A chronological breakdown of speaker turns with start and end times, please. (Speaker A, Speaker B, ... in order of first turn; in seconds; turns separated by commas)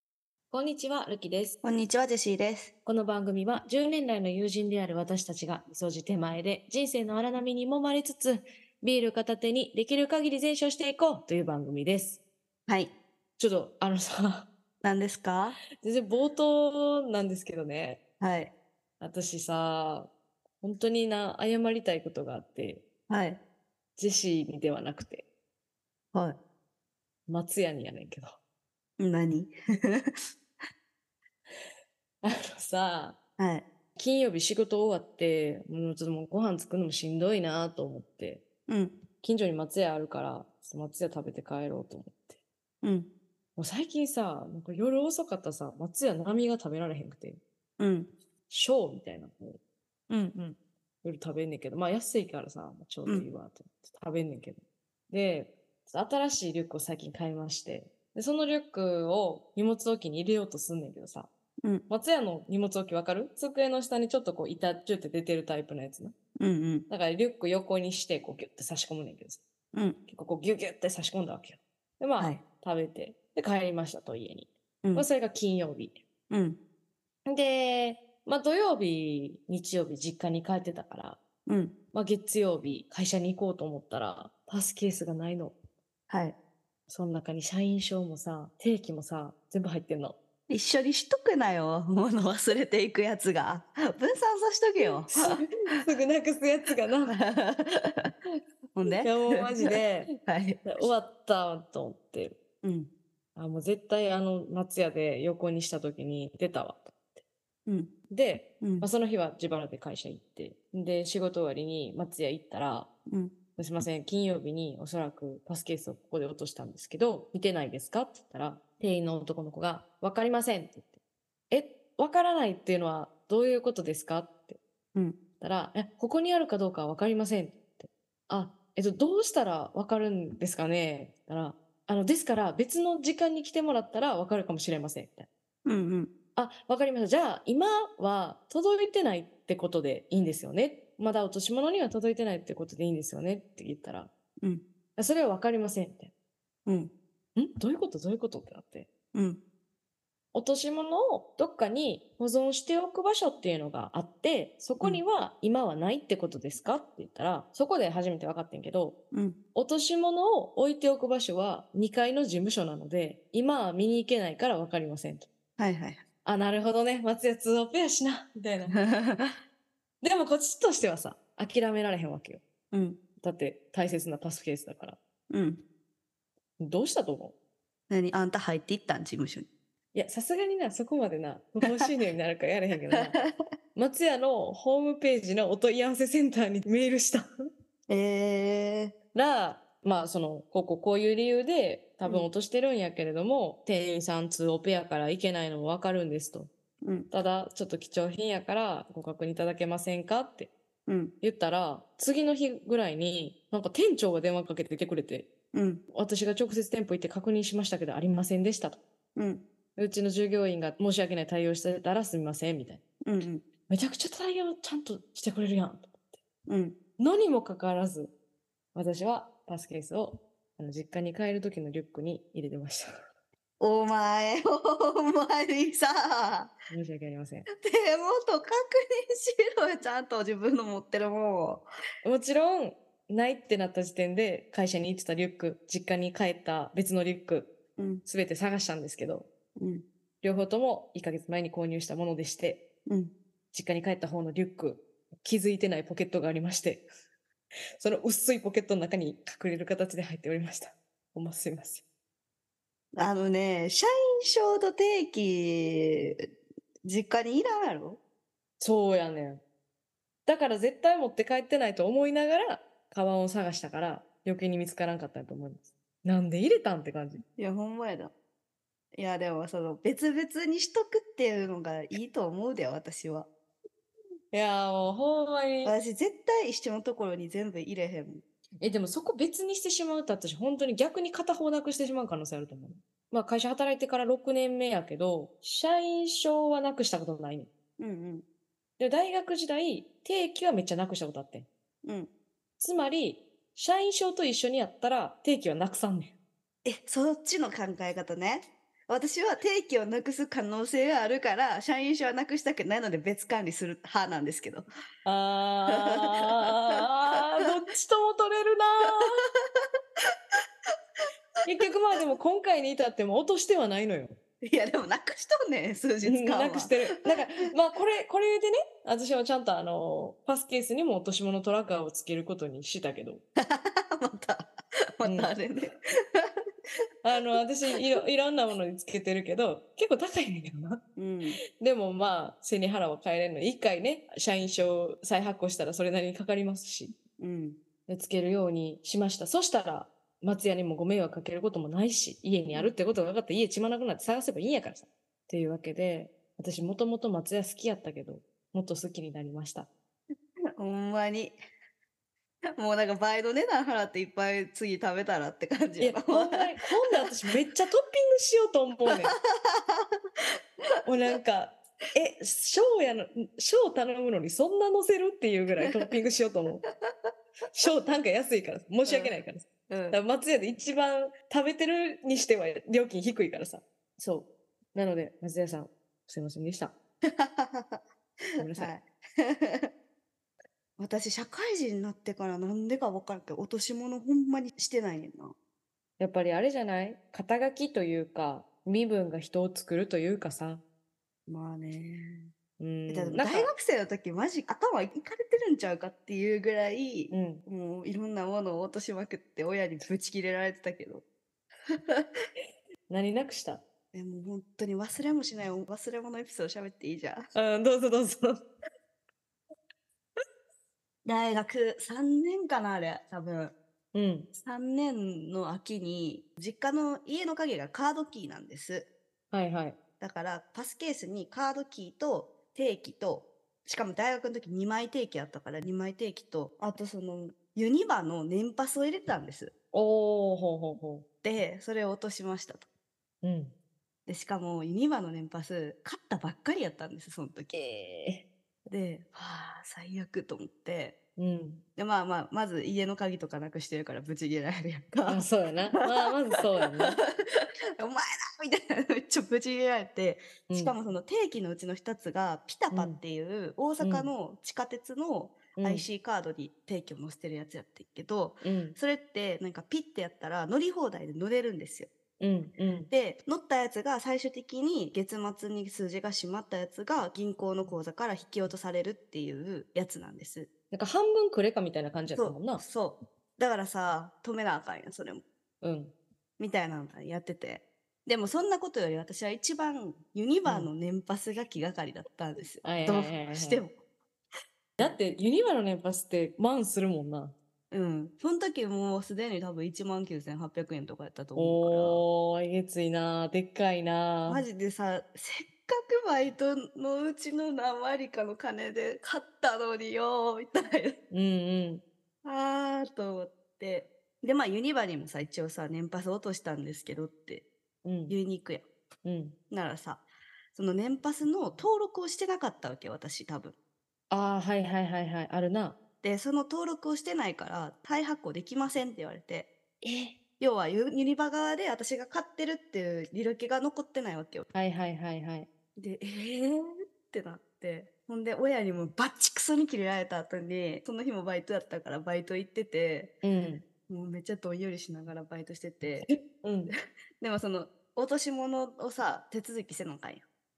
Speaker A: 0.5-1.6, Speaker B: 1.6-2.7, Speaker A: 2.8-12.2, Speaker B: 12.7-12.9, Speaker A: 13.4-14.5, Speaker B: 14.8-15.6, Speaker A: 15.8-18.0, Speaker B: 18.2-18.5, Speaker A: 19.0-20.1, Speaker A: 20.6-22.8, Speaker B: 23.1-23.4, Speaker A: 24.0-25.2, Speaker A: 27.3-28.4, Speaker B: 29.0-30.2, Speaker A: 32.2-33.2, Speaker B: 33.4-33.6, Speaker A: 34.0-38.4, Speaker B: 38.7-39.0, Speaker A: 39.2-42.4, Speaker B: 42.8-43.1, Speaker A: 43.5-47.4, Speaker B: 47.8-48.1, Speaker A: 48.5-49.6, Speaker B: 50.1-50.5, Speaker A: 51.0-61.3, Speaker A: 61.9-66.1, Speaker B: 66.4-66.8, Speaker A: 66.9-69.4, Speaker B: 69.7-70.0, Speaker A: 70.1-76.0, Speaker B: 76.3-76.6, Speaker A: 77.2-81.2, Speaker B: 81.5-81.7, Speaker A: 81.9-85.5, Speaker B: 86.1-86.3, Speaker A: 86.9-90.2, Speaker B: 90.5-95.4, Speaker A: 95.1-97.2, Speaker B: 97.1-98.1, Speaker B: 98.7-100.8, Speaker A: 99.0-100.1, Speaker A: 100.6-102.4, Speaker B: 102.6-102.9, Speaker A: 103.3-107.2, Speaker B: 107.7-107.9, Speaker A: 108.1-112.9, Speaker B: 108.6-108.9, Speaker B: 113.1-113.3, Speaker A: 113.5-121.0, Speaker A: 121.5-124.6, Speaker A: 125.4-135.3, Speaker B: 135.6-136.1, Speaker A: 136.3-144.1, Speaker A: 144.9-146.1, Speaker B: 146.7-146.9, Speaker A: 147.3-148.9, Speaker B: 149.1-149.4, Speaker A: 150.3-158.9, Speaker B: 159.1-159.4, Speaker A: 159.5-165.3, Speaker B: 165.6-166.0, Speaker A: 166.2-168.8, Speaker B: 168.7-169.3, Speaker A: 170.0-172.4, Speaker B: 172.7-173.0, Speaker A: 173.2-175.0, Speaker B: 175.3-175.6, Speaker A: 176.6-177.3, Speaker B: 177.9-179.5, Speaker A: 179.9-183.2, Speaker B: 183.0-183.3, Speaker A: 183.7-187.3, Speaker B: 187.9-188.9, Speaker A: 189.1-196.5, Speaker B: 196.8-197.1, Speaker A: 197.1-200.5, Speaker B: 200.9-201.1, Speaker A: 201.2-205.3, Speaker B: 205.5-205.8, Speaker A: 205.9-208.8, Speaker B: 209.2-209.4, Speaker A: 209.8-212.8, Speaker B: 213.0-213.4, Speaker A: 213.7-216.2, Speaker B: 216.5-216.7, Speaker A: 217.0-218.1, Speaker A: 218.7-222.9, Speaker B: 223.6-226.5, Speaker A: 226.7-227.4, Speaker B: 227.6-231.6, Speaker A: 232.0-237.5, Speaker B: 237.8-238.0, Speaker A: 238.1-239.3, Speaker B: 239.6-239.8, Speaker A: 240.2-242.6, Speaker B: 242.8-243.1, Speaker A: 243.5-246.8, Speaker A: 247.8-251.8, Speaker B: 252.9-256.2, Speaker B: 256.8-258.0, Speaker A: 258.6-259.4, Speaker A: 260.2-267.2, Speaker B: 267.4-268.1, Speaker B: 268.9-273.3, Speaker A: 274.3-275.7, Speaker B: 275.6-278.2, Speaker A: 278.6-287.5, Speaker B: 287.8-288.2, Speaker A: 288.8-291.5, Speaker B: 291.8-292.1, Speaker A: 292.6-296.1, Speaker B: 296.6-304.6, Speaker A: 305.0-309.2, Speaker B: 305.7-306.5, Speaker A: 311.4-314.2, Speaker B: 314.4-316.7, Speaker A: 316.0-323.2, Speaker B: 323.4-326.3, Speaker A: 325.0-325.3, Speaker A: 327.0-330.8, Speaker B: 330.9-331.4, Speaker A: 331.6-336.9, Speaker B: 337.2-337.6, Speaker A: 337.9-349.7, Speaker B: 350.6-351.4, Speaker B: 352.6-356.9, Speaker A: 355.8-359.1, Speaker B: 358.9-359.9, Speaker A: 360.8-366.6, Speaker A: 367.5-376.7, Speaker B: 368.9-369.1, Speaker B: 369.7-370.0, Speaker B: 377.0-377.8, Speaker B: 378.4-379.7, Speaker A: 378.4-378.7, Speaker B: 380.8-385.3, Speaker A: 386.0-390.6, Speaker B: 391.3-392.3, Speaker A: 392.6-393.5, Speaker B: 392.9-401.0, Speaker A: 397.1-397.4, Speaker B: 401.7-402.1, Speaker A: 402.9-403.6, Speaker B: 403.9-407.2, Speaker A: 407.3-408.4, Speaker B: 411.0-413.5, Speaker A: 413.9-414.3, Speaker B: 414.3-418.9, Speaker A: 419.3-419.8, Speaker B: 420.0-429.5, Speaker A: 429.7-431.0, Speaker B: 431.2-432.7, Speaker A: 433.2-433.5, Speaker B: 434.1-437.5, Speaker A: 437.5-438.2, Speaker B: 438.7-440.9, Speaker A: 441.2-441.6, Speaker B: 441.8-447.1, Speaker A: 445.1-447.0, Speaker B: 447.8-461.9, Speaker A: 450.5-450.7, Speaker A: 452.7-453.0, Speaker A: 453.8-454.1, Speaker A: 455.6-455.9, Speaker A: 458.4-458.8, Speaker A: 462.2-462.9, Speaker B: 462.9-470.5, Speaker A: 470.7-472.6, Speaker B: 472.1-475.2, Speaker A: 475.6-475.9, Speaker B: 476.4-483.8, Speaker A: 480.4-480.7, Speaker A: 482.6-483.6, Speaker A: 484.8-487.3, Speaker B: 487.7-492.0, Speaker A: 491.4-494.4, Speaker B: 494.3-501.0, Speaker A: 501.1-501.8, Speaker B: 502.2-507.4, Speaker A: 507.8-508.1, Speaker B: 508.1-508.6, Speaker A: 509.0-509.4, Speaker B: 509.5-510.0, Speaker B: 510.5-513.5, Speaker A: 514.1-515.8, Speaker B: 516.0-519.5, Speaker A: 519.8-520.1, Speaker B: 520.4-524.5, Speaker A: 524.5-525.5, Speaker B: 525.8-533.1, Speaker A: 533.2-533.6, Speaker B: 533.9-536.1, Speaker A: 536.0-536.7, Speaker B: 537.2-540.2